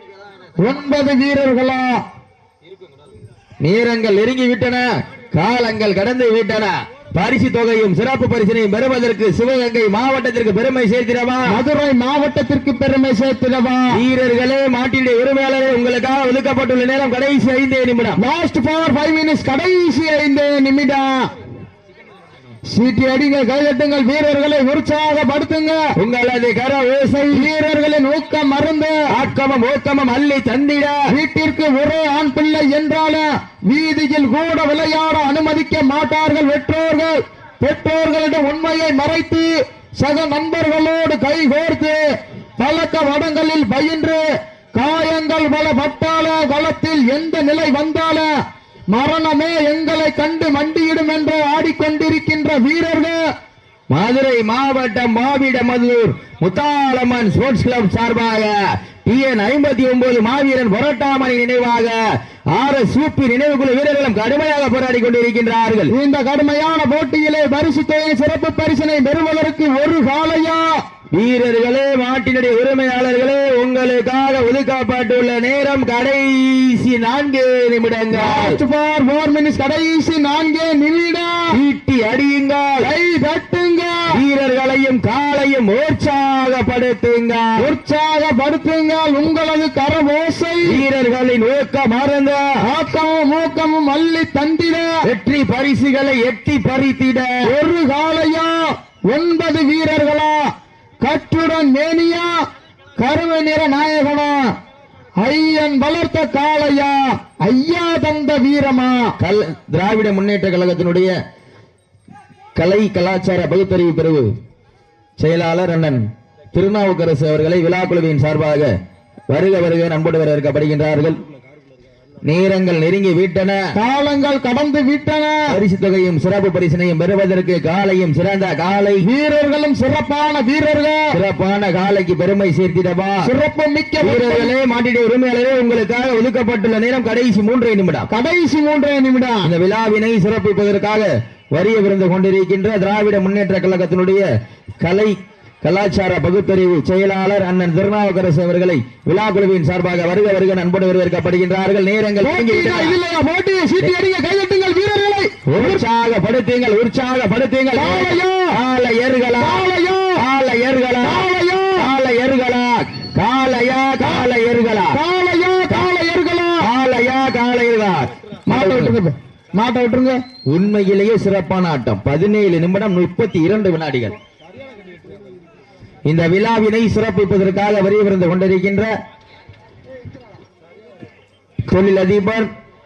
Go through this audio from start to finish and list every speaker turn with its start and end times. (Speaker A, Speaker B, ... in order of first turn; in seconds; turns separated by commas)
Speaker A: 0.6-2.0, Speaker B: 3.6-11.6, Speaker A: 11.5-14.0, Speaker B: 13.9-18.2, Speaker A: 18.2-21.3, Speaker A: 22.7-25.8, Speaker B: 26.0-27.5, Speaker A: 27.3-29.0, Speaker B: 29.1-31.1, Speaker A: 31.1-42.0, Speaker A: 42.6-44.2, Speaker A: 44.8-48.3, Speaker A: 48.9-53.2, Speaker B: 53.9-62.0, Speaker B: 62.5-65.9, Speaker A: 65.9-70.7, Speaker B: 71.2-78.6, Speaker A: 78.1-81.4, Speaker B: 81.5-82.9, Speaker A: 82.8-84.0, Speaker B: 84.1-87.5, Speaker A: 87.6-90.8, Speaker B: 90.7-92.4, Speaker A: 92.6-94.9, Speaker B: 95.0-97.3, Speaker A: 97.5-100.5, Speaker A: 101.0-102.3, Speaker A: 103.0-104.4, Speaker A: 105.2-109.2, Speaker B: 109.2-111.1, Speaker B: 112.6-114.3, Speaker B: 115.2-118.7, Speaker B: 119.3-121.2, Speaker B: 122.2-123.6, Speaker A: 123.8-125.4, Speaker B: 125.5-129.1, Speaker A: 129.0-131.2, Speaker B: 131.1-133.3, Speaker A: 133.2-134.5, Speaker B: 134.0-138.1, Speaker A: 138.1-139.5, Speaker B: 139.4-144.3, Speaker B: 144.8-153.0, Speaker A: 152.2-155.8, Speaker B: 155.5-159.6, Speaker A: 157.7-158.6, Speaker A: 159.4-160.2, Speaker B: 160.2-165.0, Speaker A: 161.0-161.9, Speaker A: 164.0-164.3, Speaker A: 164.9-166.7, Speaker B: 166.6-168.9, Speaker A: 168.5-170.2, Speaker B: 170.5-174.2, Speaker B: 176.1-178.9, Speaker B: 181.7-182.5